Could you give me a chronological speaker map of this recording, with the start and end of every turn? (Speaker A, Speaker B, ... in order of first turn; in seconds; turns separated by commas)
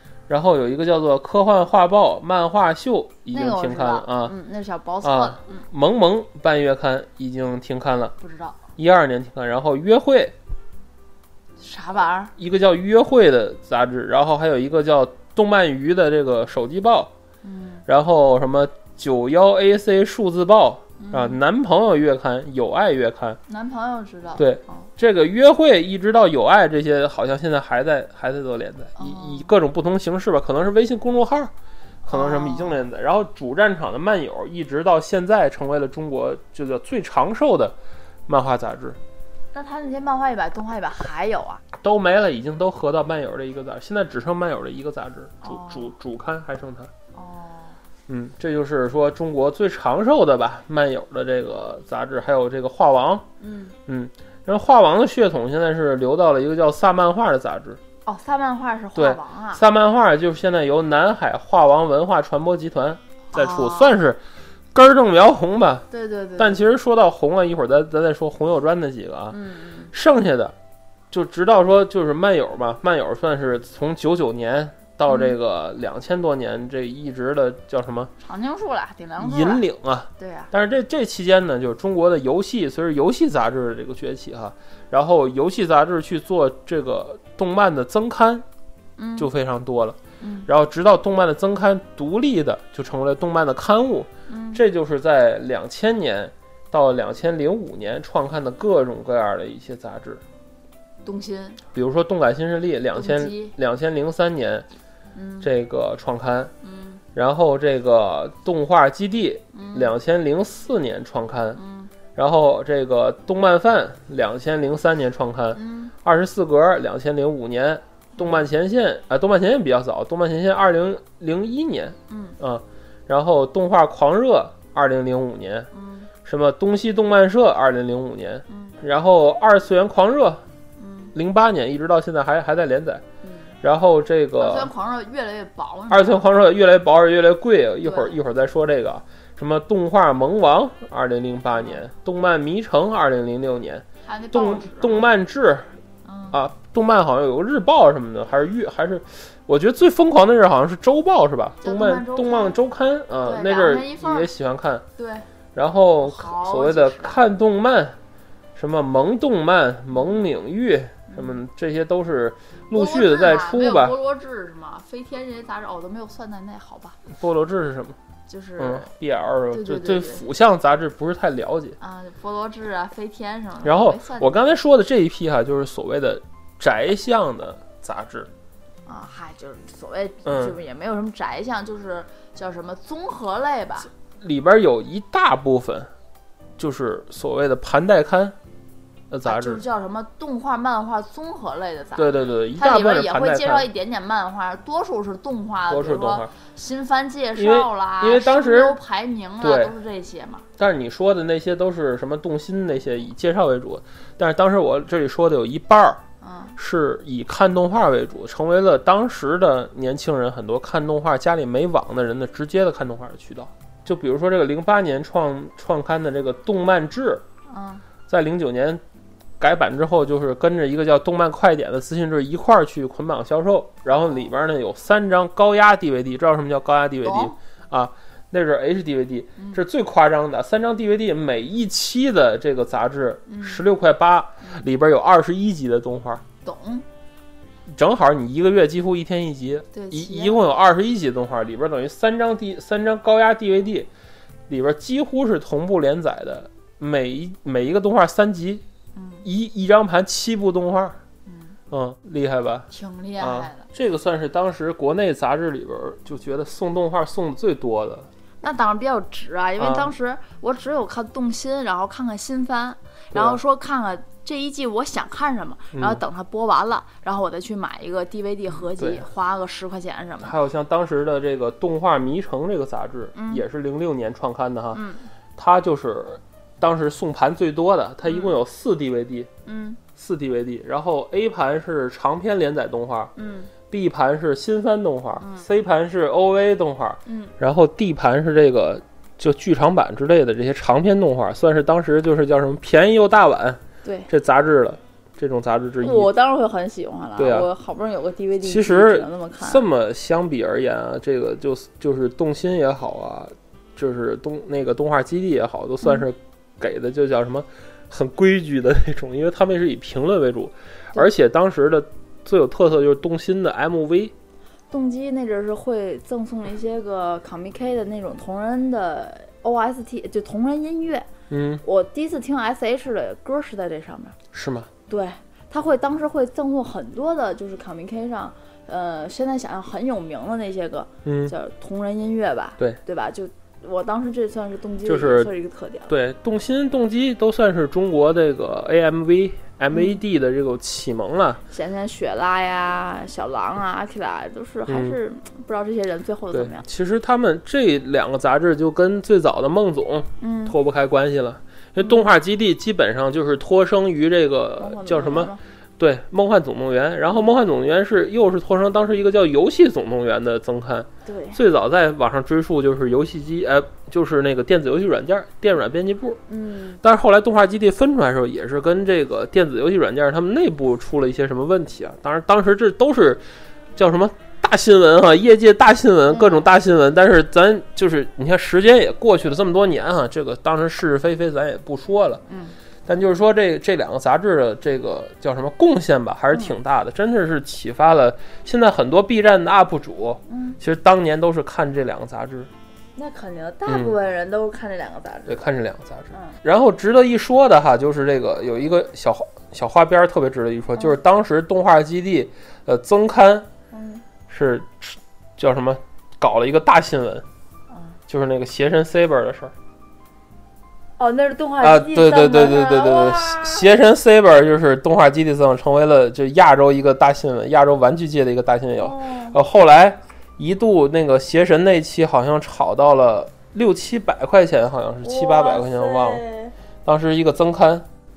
Speaker A: 0.3-4.3, Speaker B: 3.3-5.7, Speaker A: 5.0-8.2, Speaker B: 8.2-8.6, Speaker A: 8.8-10.3, Speaker B: 11.6-12.3, Speaker A: 12.4-17.1, Speaker B: 17.4-17.8, Speaker A: 17.9-23.4, Speaker B: 21.0-21.4, Speaker B: 23.5-24.9, Speaker A: 24.4-31.5, Speaker B: 29.0-29.5, Speaker A: 32.0-37.8, Speaker B: 32.1-32.9, Speaker A: 38.3-39.0, Speaker B: 39.5-41.6, Speaker A: 41.8-46.9, Speaker B: 45.4-45.9, Speaker B: 47.1-47.8, Speaker A: 48.1-53.2, Speaker B: 53.4-53.8, Speaker A: 53.9-57.8, Speaker B: 58.1-59.6, Speaker A: 59.0-64.2, Speaker B: 63.3-64.1, Speaker A: 64.7-65.9, Speaker B: 65.9-66.7, Speaker A: 66.4-69.4, Speaker B: 69.3-69.9, Speaker A: 69.9-70.5, Speaker A: 71.1-78.1, Speaker B: 75.1-75.3, Speaker B: 78.2-79.7, Speaker A: 79.2-88.5, Speaker B: 80.2-80.5, Speaker B: 89.0-89.3, Speaker A: 89.2-100.2, Speaker B: 90.2-90.5, Speaker B: 94.3-94.6, Speaker B: 101.0-101.6, Speaker A: 101.7-104.7, Speaker B: 102.9-103.5, Speaker B: 105.1-105.5, Speaker A: 105.4-106.5, Speaker B: 106.6-107.0, Speaker A: 107.2-111.6, Speaker B: 109.5-110.0, Speaker B: 111.6-111.9, Speaker A: 112.2-125.7, Speaker B: 115.5-115.9, Speaker B: 118.2-118.5, Speaker B: 122.1-122.4, Speaker B: 125.7-126.1, Speaker A: 126.2-130.4, Speaker B: 128.5-128.8, Speaker B: 130.8-131.1, Speaker A: 131.1-133.0, Speaker B: 133.2-133.6, Speaker A: 133.6-134.7, Speaker B: 134.4-136.3, Speaker A: 135.9-145.7, Speaker B: 137.8-138.2, Speaker B: 141.5-141.8, Speaker B: 144.0-145.1, Speaker B: 146.1-146.4, Speaker A: 146.3-154.9, Speaker B: 151.6-152.6, Speaker B: 153.2-154.3, Speaker B: 155.0-155.3, Speaker A: 155.6-158.0, Speaker B: 156.0-157.2, Speaker A: 158.6-163.9, Speaker B: 159.9-160.2, Speaker B: 161.1-161.4, Speaker B: 162.7-167.0, Speaker A: 167.1-168.0, Speaker B: 168.3-168.9, Speaker A: 168.6-171.8, Speaker B: 169.5-170.3, Speaker B: 171.8-174.4, Speaker A: 173.6-178.3, Speaker B: 178.9-183.9, Speaker A: 180.3-180.6, Speaker A: 184.2-185.9, Speaker A: 186.6-188.4, Speaker A: 189.1-189.6, Speaker B: 189.2-200.5, Speaker A: 192.0-193.7, Speaker A: 195.7-196.3, Speaker A: 197.4-198.8, Speaker A: 199.4-199.8, Speaker A: 200.6-206.0, Speaker B: 206.2-206.6, Speaker A: 206.6-217.2, Speaker B: 217.5-217.9, Speaker A: 218.1-218.8, Speaker A: 219.4-236.2, Speaker B: 227.0-227.4, Speaker B: 229.4-229.6, Speaker B: 233.3-233.6, Speaker B: 236.4-236.9, Speaker A: 237.7-243.9, Speaker B: 239.7-240.4, Speaker A: 244.5-248.6, Speaker B: 248.9-249.3, Speaker A: 249.2-251.0, Speaker B: 251.3-251.6, Speaker A: 251.7-252.7, Speaker B: 252.7-253.7, Speaker A: 253.2-258.1, Speaker B: 258.4-270.4, Speaker A: 259.6-259.9, Speaker A: 263.1-263.4, Speaker A: 265.7-266.0, Speaker A: 268.8-269.0, Speaker A: 270.2-274.8, Speaker B: 273.1-273.4, Speaker B: 274.7-275.1, Speaker A: 275.4-279.3, Speaker B: 278.1-278.3, Speaker B: 279.5-279.8, Speaker A: 280.0-283.1, Speaker B: 283.2-283.5, Speaker A: 283.7-296.1, Speaker B: 285.2-285.5, Speaker B: 287.1-287.3, Speaker B: 293.8-294.1, Speaker B: 295.8-299.6, Speaker A: 297.2-297.5, Speaker A: 298.4-314.1, Speaker B: 314.7-321.1, Speaker A: 321.3-321.6, Speaker B: 321.6-324.2, Speaker A: 324.3-324.7, Speaker B: 324.9-335.9, Speaker A: 331.1-331.3, Speaker A: 334.9-335.3, Speaker A: 335.9-341.4, Speaker B: 339.7-340.0, Speaker B: 341.5-346.7, Speaker A: 344.7-345.0, Speaker A: 346.3-366.2, Speaker B: 350.2-350.6, Speaker B: 351.8-352.1, Speaker B: 354.6-355.4, Speaker B: 361.1-361.4, Speaker B: 366.3-366.8, Speaker A: 366.8-373.2, Speaker A: 373.8-382.2, Speaker B: 376.1-376.5, Speaker B: 382.3-382.6, Speaker A: 382.9-392.5, Speaker B: 390.3-390.6, Speaker B: 393.0-395.4, Speaker A: 393.7-393.9, Speaker A: 395.3-403.5, Speaker B: 403.7-404.0, Speaker A: 404.3-407.3, Speaker B: 407.7-408.0, Speaker A: 408.1-409.5, Speaker B: 411.0-413.7, Speaker A: 411.6-426.2, Speaker B: 418.8-419.4, Speaker B: 425.0-426.6, Speaker A: 426.8-427.9